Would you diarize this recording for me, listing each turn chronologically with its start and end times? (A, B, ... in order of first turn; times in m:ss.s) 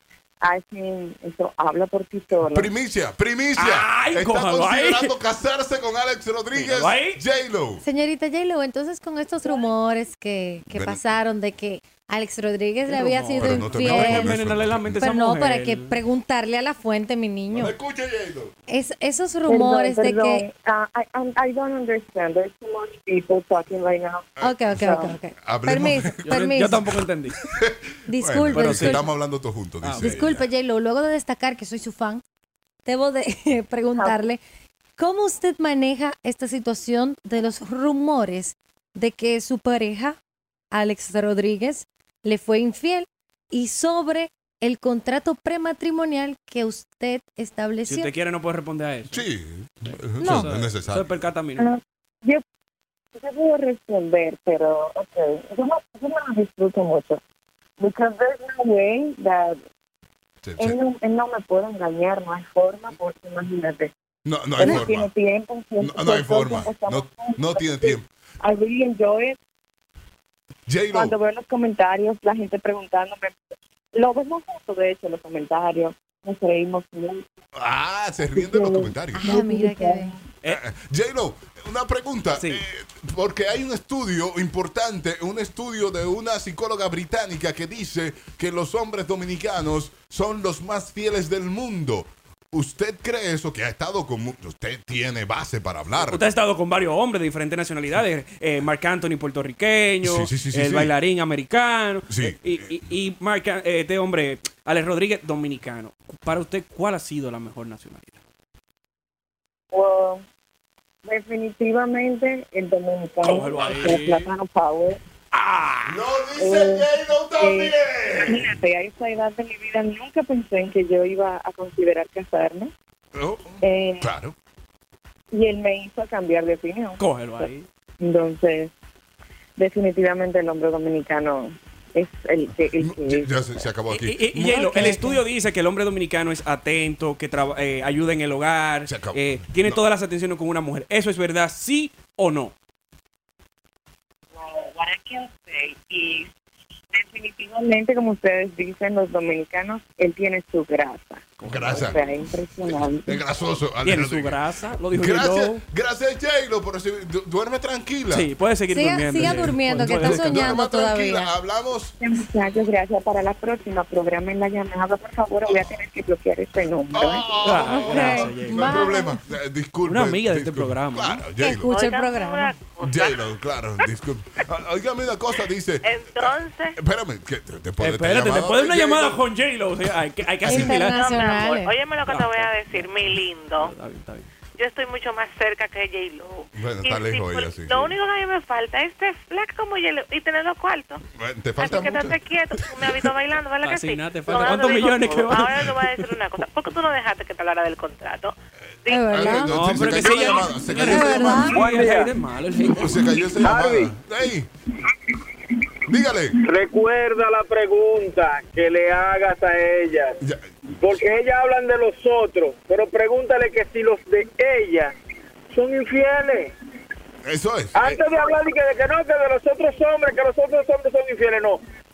0:00.4-0:02.7 A
0:02.5-0:07.8 B
0:03.6-0:05.1 C
0:06.5-0:07.2 C
0:07.8-0:14.4 D
0:10.7-0:11.0 B
0:12.9-0:15.9 C
0:13.4-0:15.0 B
0:15.0-0:17.7 D
0:17.5-0:18.5 B
0:18.7-0:20.5 D
0:19.5-0:25.1 A
0:24.4-0:26.8 D
0:25.4-0:30.5 B
0:26.3-0:27.4 C
0:28.1-0:29.1 D
0:28.5-0:29.0 C
0:29.8-0:30.2 C
0:30.0-0:32.2 D
0:32.8-0:34.4 D
0:35.0-0:40.2 D
0:40.7-0:48.1 D
0:47.9-0:49.2 C
0:49.1-0:51.2 B
0:49.9-0:51.7 C
0:50.2-0:50.5 D
0:51.6-0:52.4 A
0:53.2-0:57.2 A
0:57.8-0:59.6 A
1:00.4-1:00.8 B
1:00.6-1:03.9 A
1:04.2-1:05.1 B
1:04.6-1:09.4 A
1:05.8-1:08.1 B
1:10.7-1:11.1 B
1:10.9-1:13.4 A
1:13.9-1:17.2 A
1:17.5-1:19.4 B
1:18.4-1:20.2 A
1:19.2-1:20.2 D
1:20.4-1:36.2 B
1:22.4-1:22.6 C
1:36.0-1:48.2 C
1:40.0-1:40.9 B
1:42.1-1:42.5 B
1:49.7-1:50.2 A
1:51.0-1:55.0 A
1:53.2-1:54.3 C
1:55.3-1:56.0 C
1:55.9-1:58.5 B
1:56.4-2:02.7 A
2:03.2-2:04.4 B
2:03.6-2:04.1 A
2:05.3-2:07.5 A
2:07.0-2:07.7 C
2:08.0-2:08.7 A
2:09.6-2:13.6 A
2:12.8-2:14.9 B
2:13.9-2:22.5 C
2:14.7-2:15.2 D
2:14.7-2:15.1 A
2:18.9-2:19.8 B
2:24.7-2:26.2 A
2:26.9-2:33.2 A
2:31.4-2:32.1 C
2:31.5-2:32.0 B
2:33.0-2:34.4 B
2:33.8-2:35.6 C
2:34.9-2:38.3 B
2:38.1-2:40.6 C
2:38.7-2:41.3 D
2:39.2-2:41.9 B
2:42.0-2:47.3 A
2:45.5-2:45.8 B
2:46.9-2:51.7 B
2:47.4-2:48.9 C
2:47.6-2:49.2 D
2:49.8-2:51.2 C
2:51.4-2:52.5 D
2:51.7-2:53.2 E
2:52.8-2:59.2 B
2:55.8-2:56.8 E
2:57.8-3:01.0 C
3:00.4-3:00.7 B
3:00.5-3:01.7 D
3:00.8-3:03.7 E
3:02.1-3:04.3 C
3:04.6-3:11.0 E
3:06.6-3:07.9 B
3:11.2-3:12.2 B
3:11.6-3:18.3 E
3:12.8-3:13.1 B
3:13.6-3:16.1 C
3:18.9-3:19.2 E
3:18.9-3:19.6 D
3:19.0-3:21.7 B
3:19.5-3:23.2 C
3:20.8-3:21.6 D
3:21.6-3:22.1 F
3:22.6-3:24.5 B
3:23.4-3:24.0 F
3:25.9-3:26.4 B
3:26.4-3:30.2 F
3:30.2-3:30.5 B
3:30.8-3:34.9 F
3:35.5-3:36.5 F
3:37.2-3:38.0 B
3:37.7-3:41.6 F